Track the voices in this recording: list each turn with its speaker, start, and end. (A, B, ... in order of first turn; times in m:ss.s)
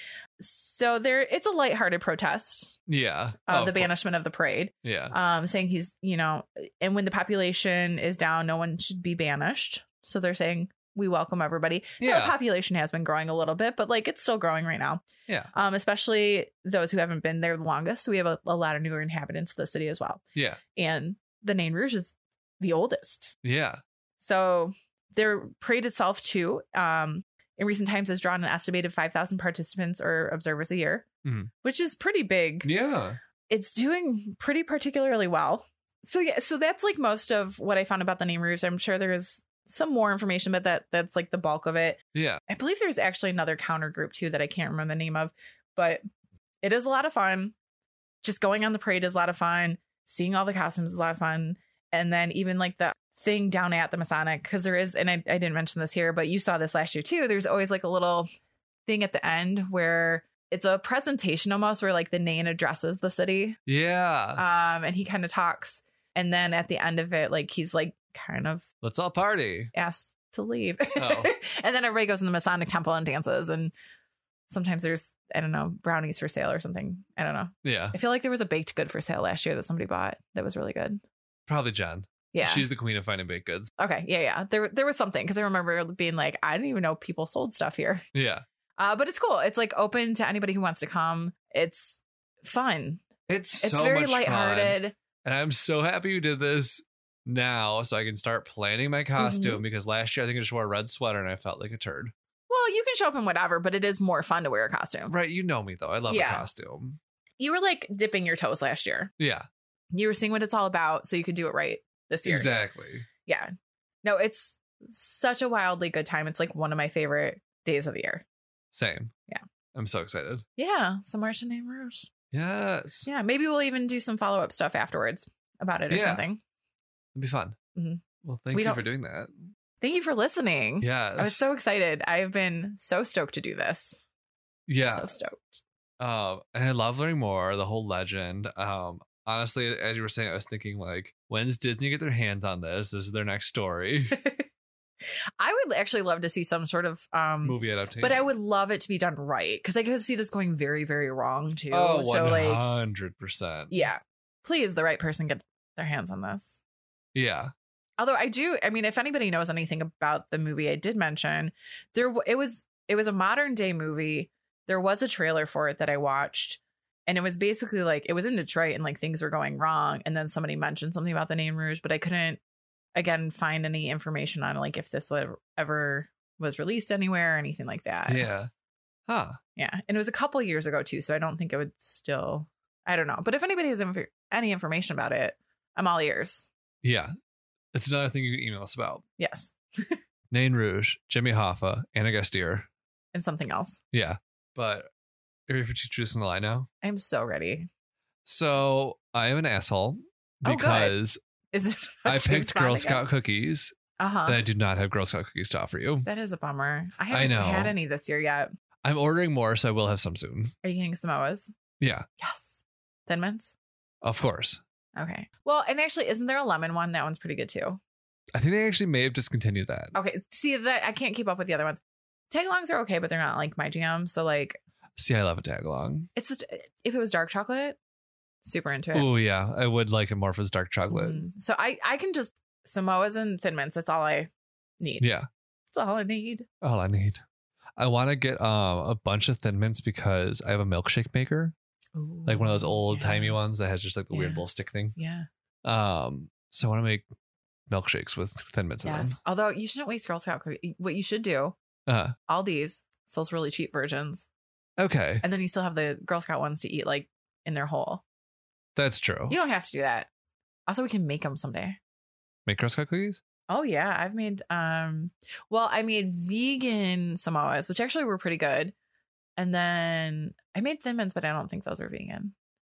0:00.4-0:02.8 A
0:02.9-0:03.9 B
0:03.5-0:20.2 A
0:04.8-0:05.2 B
0:12.0-0:12.4 B
0:20.4-0:20.6 B
0:20.7-0:23.4 A
0:23.4-0:23.8 B
0:24.2-0:31.1 A
0:31.2-0:31.5 B
0:31.6-0:32.7 A
0:32.6-0:33.2 B
0:33.5-0:46.0 A
0:42.1-0:42.4 B
0:46.6-0:47.5 A
0:48.2-0:58.3 A
0:58.9-1:03.6 A
1:03.7-1:04.4 B
1:04.4-1:08.6 A
1:08.8-1:09.7 B
1:09.7-1:13.7 A
1:11.0-1:11.3 B
1:14.5-1:21.0 A
1:17.6-1:18.0 B
1:21.5-1:23.7 B
1:22.3-1:22.7 A
1:23.8-1:28.0 A
1:28.1-1:28.4 B
1:28.8-1:33.0 A
1:33.3-1:42.1 B
1:33.6-1:35.0 A
1:39.2-1:39.6 A
1:42.5-1:45.1 A
1:45.1-1:47.0 B
1:46.1-1:46.5 A
1:47.4-1:49.1 A
1:49.2-1:49.5 B
1:49.9-1:52.5 A
1:52.2-1:53.1 B
1:53.2-1:53.5 A
1:54.0-1:58.2 A
1:58.7-1:59.1 B
1:59.7-2:00.4 B
2:00.6-2:02.1 A
2:02.3-2:03.1 B
2:03.1-2:06.4 A
2:05.9-2:06.2 B
2:07.2-2:07.6 B
2:07.8-2:08.8 A
2:08.2-2:09.5 B
2:09.8-2:14.0 A
2:10.8-2:11.4 B
2:14.7-2:15.1 B
2:14.9-2:15.6 A
2:16.0-2:24.2 B
2:24.1-2:24.5 A
2:25.4-2:32.6 A
2:27.4-2:28.3 B
2:31.7-2:33.9 B
2:33.7-2:36.6 A
2:37.2-2:37.5 B
2:38.0-2:52.4 A
2:53.0-2:58.3 A
2:58.1-2:58.5 B
2:59.1-2:59.4 B
2:59.6-3:06.5 A
3:06.8-3:07.1 B
3:07.7-3:09.0 B
3:09.2-3:10.0 A
3:10.3-3:12.7 B
3:13.1-3:13.8 A
3:13.9-3:14.9 B
3:15.5-3:16.7 B
3:16.8-3:17.7 A
3:18.3-3:21.2 B
3:20.4-3:21.0 A
3:21.5-3:23.0 A
3:22.1-3:26.1 B
3:24.0-3:24.4 A
3:26.0-3:28.5 A
3:27.1-3:27.8 B
3:28.8-3:30.5 B
3:30.6-3:31.5 A
3:31.8-3:32.1 B
3:32.2-3:33.5 A
3:34.0-3:34.6 B
3:35.0-3:37.8 A
3:38.3-3:40.0 B
3:40.0-3:44.6 A
3:45.0-3:46.1 B
3:46.2-3:47.8 A
3:48.4-3:49.1 A
3:48.9-3:51.2 B
3:50.9-3:55.1 A
3:55.0-3:55.3 B
3:55.7-3:56.5 A
3:56.6-3:57.2 B
3:57.8-4:01.5 B
4:02.0-4:03.4 A
4:02.3-4:05.0 B
4:04.1-4:04.4 A
4:05.0-4:05.3 A
4:05.6-4:07.0 B
4:07.7-4:09.2 B
4:08.8-4:11.6 A
4:11.9-4:12.2 B
4:12.3-4:14.3 A
4:14.8-4:15.2 B
4:15.2-4:18.0 A
4:18.8-4:19.4 B
4:19.3-4:20.1 A
4:20.7-4:21.8 A
4:22.5-4:23.2 B
4:23.5-4:28.7 A
4:29.4-4:32.3 A